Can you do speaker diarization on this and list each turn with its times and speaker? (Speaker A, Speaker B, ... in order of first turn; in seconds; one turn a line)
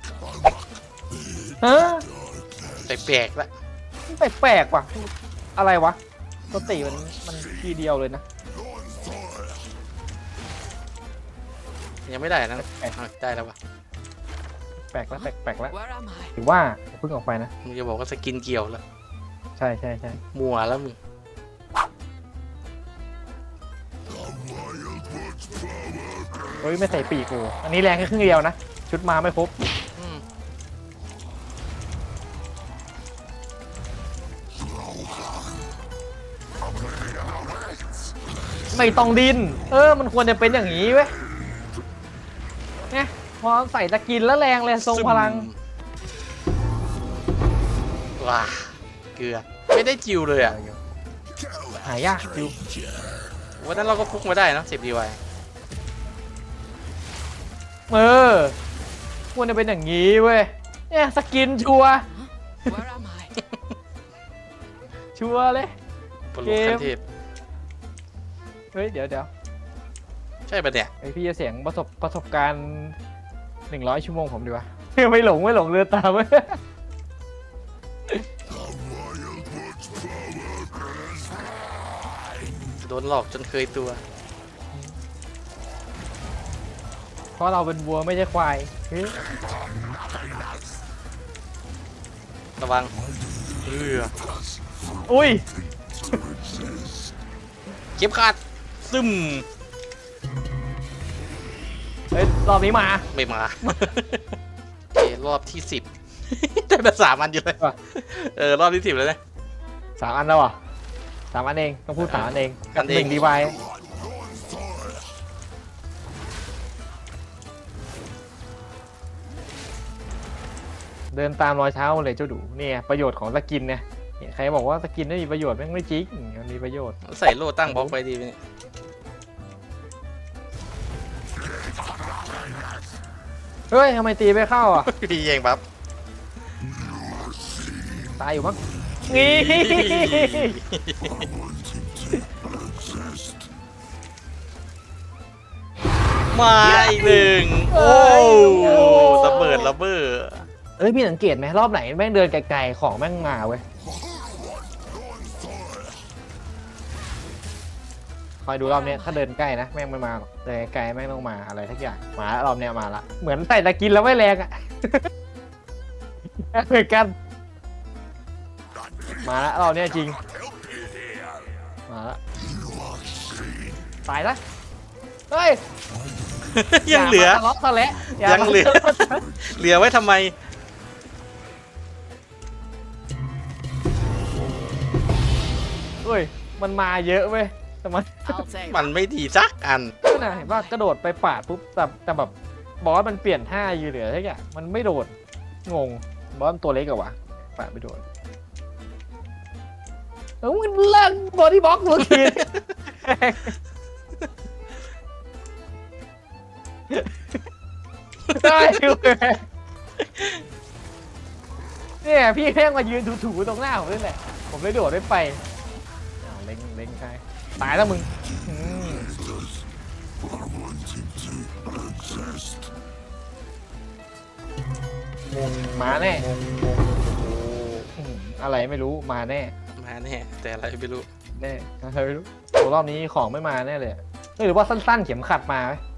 Speaker A: 1.6-2.1
Speaker B: 2.8-3.5
Speaker A: 4.1-6.0
Speaker A: 6.5-8.2
Speaker B: 12.1-13.6
Speaker A: 12.6-12.9
Speaker A: 14.9-15.7
Speaker C: 15.7-16.4
Speaker A: 16.4-17.5
Speaker B: 17.6-18.8
Speaker A: 19.6-20.2
Speaker B: 20.2-21.0
Speaker A: 26.6-29.5
Speaker B: 30.0-30.2
Speaker A: 38.7-41.1
Speaker A: 42.9-45.5
Speaker B: 44.8-45.6
Speaker B: 48.2-50.6
Speaker A: 50.4-50.8
Speaker A: 51.8-52.6
Speaker B: 53.6-55.2
Speaker A: 57.9-58.6
Speaker A: 59.4-62.1
Speaker C: 62.1-63.4
Speaker A: 65.2-65.7
Speaker B: 66.3-67.0
Speaker A: 66.4-66.9
Speaker A: 68.7-69.3
Speaker B: 70.5-70.9
Speaker A: 71.0-73.0
Speaker A: 73.7-76.6
Speaker B: 82.8-84.0
Speaker A: 87.4-89.2
Speaker B: 92.6-92.9
Speaker B: 93.6-94.2
Speaker A: 95.0-95.5
Speaker B: 98.0-99.5
Speaker A: 102.1-103.1
Speaker B: 103.1-104.2
Speaker B: 104.9-109.2
Speaker A: 110.0-110.6
Speaker A: 111.3-113.6
Speaker B: 112.0-113.4
Speaker A: 121.1-127.0
Speaker B: 127.0-128.4
Speaker A: 127.7-128.0
Speaker A: 133.7-134.9
Speaker B: 134.8-135.6
Speaker A: 138.2-140.6
Speaker B: 139.1-141.3
Speaker B: 146.3-150.5
Speaker A: 146.6-149.7
Speaker C: 148.8-149.6
Speaker A: 150.8-153.6
Speaker A: 158.4-165.1
Speaker C: 158.6-159.2
Speaker A: 166.4-167.1
Speaker A: 169.2-170.2
Speaker A: 171.9-172.2
Speaker A: 174.1-174.4
Speaker A: 175.3-175.6
Speaker B: 176.4-177.5
Speaker A: 176.9-179.3
Speaker B: 178.1-180.3
Speaker A: 186.0-188.4
Speaker C: 188.2-188.9
Speaker B: 188.6-190.0
Speaker A: 190.1-195.1
Speaker C: 190.1-190.7
Speaker A: 195.7-198.0
Speaker A: 200.4-203.5
Speaker B: 208.3-208.9
Speaker A: 208.3-209.4
Speaker B: 210.0-210.4
Speaker A: 212.0-215.4
Speaker A: 216.2-219.1
Speaker B: 225.3-227.9
Speaker A: 225.8-226.3
Speaker A: 228.0-229.5
Speaker B: 229.8-231.1
Speaker A: 231.4-235.8